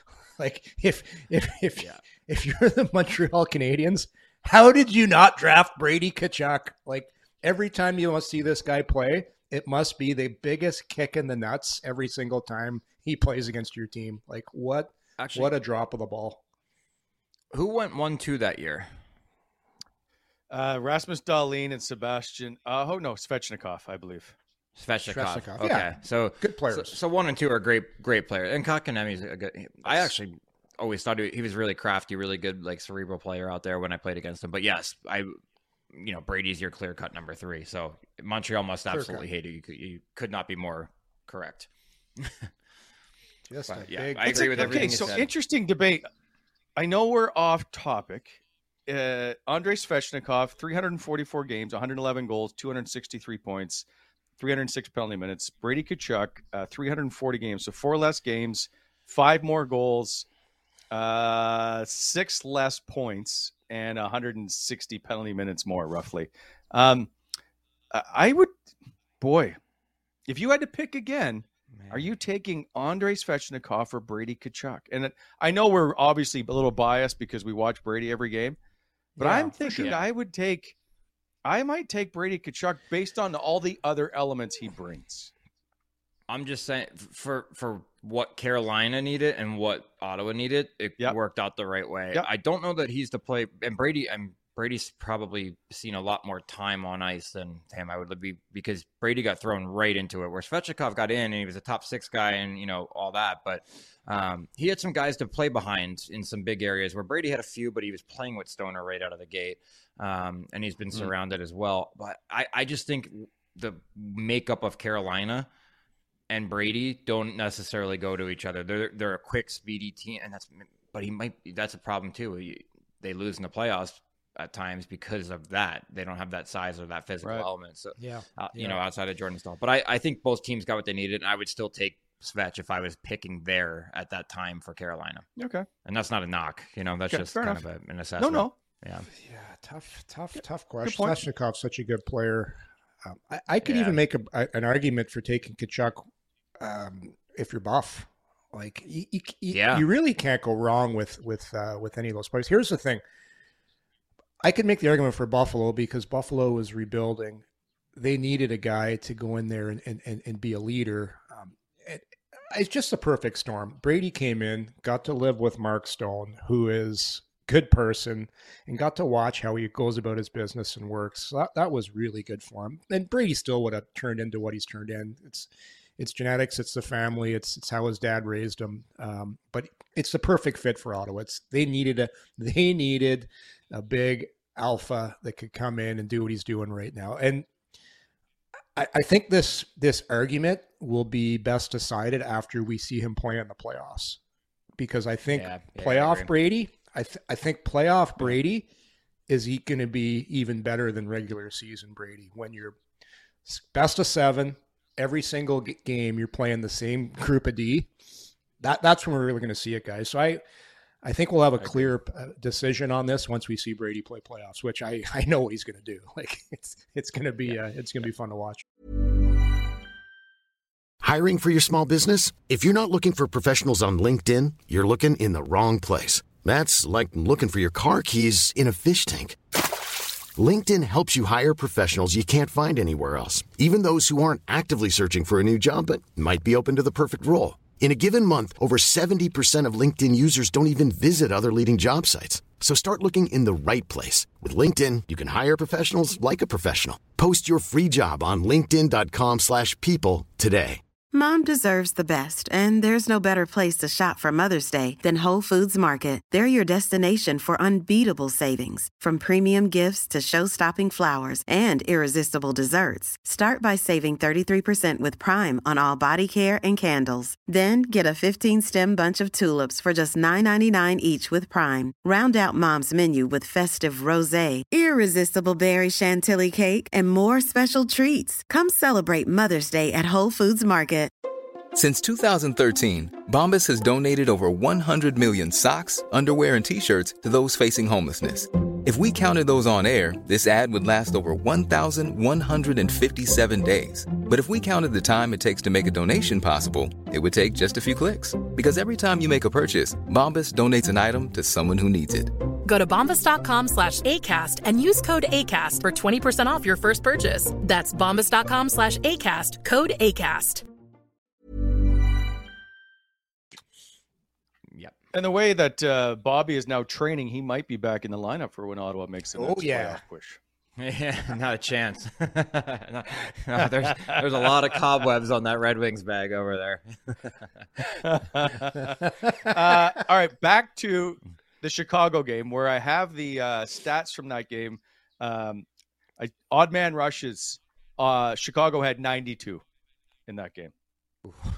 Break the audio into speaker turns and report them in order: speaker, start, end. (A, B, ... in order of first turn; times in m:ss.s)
0:00.4-0:16.4 A
0:15.2-0:15.6 B
0:17.5-0:18.9 B
0:20.5-0:24.3 C
0:24.8-0:35.3 B
0:25.1-0:27.0 A
0:29.8-0:30.1 A
0:35.9-0:41.7 B
0:38.9-0:39.2 A
0:42.2-0:42.5 B
0:43.5-0:45.2 A
0:43.7-0:45.3 B
0:44.3-0:46.1 C
0:46.8-0:53.8 C
0:54.4-1:00.3 C
1:00.9-1:07.1 C
1:07.9-1:08.6 C
1:09.2-1:09.6 C
1:10.3-1:18.6 C
1:11.8-1:12.1 B
1:19.2-1:19.9 A
1:19.2-1:20.8 C
1:19.8-1:20.0 B
1:21.4-1:25.3 C
1:26.3-1:55.5 B
1:56.3-2:15.3 B
2:08.0-2:08.8 A
2:15.4-2:15.7 C
2:15.8-2:19.1 B
2:17.1-2:17.6 C
2:18.2-2:18.5 C
2:19.2-2:26.1 A
2:20.8-2:21.2 C
2:23.6-2:24.0 B
2:26.6-2:33.0 A
2:29.5-2:29.8 B
2:34.4-2:37.4 A
2:38.0-3:07.5 A
3:08.8-3:14.2 A
3:14.8-3:18.7 A
3:15.3-3:16.3 B
3:19.3-3:22.8 A
3:23.5-3:27.9 A
3:28.6-3:30.4 A
3:31.0-3:38.6 A
3:31.6-3:31.9 B
3:41.0-3:49.4 D
3:50.4-4:10.8 D
4:11.1-4:41.1 E
4:41.7-5:02.4 F
5:02.6-5:10.6 G
5:15.1-5:20.4 C
5:19.4-5:20.0 A
5:20.8-5:27.4 B
5:24.0-5:24.2 C
5:28.0-5:35.6 C
5:29.1-5:29.6 A
5:36.2-5:39.6 C
5:40.3-5:40.7 C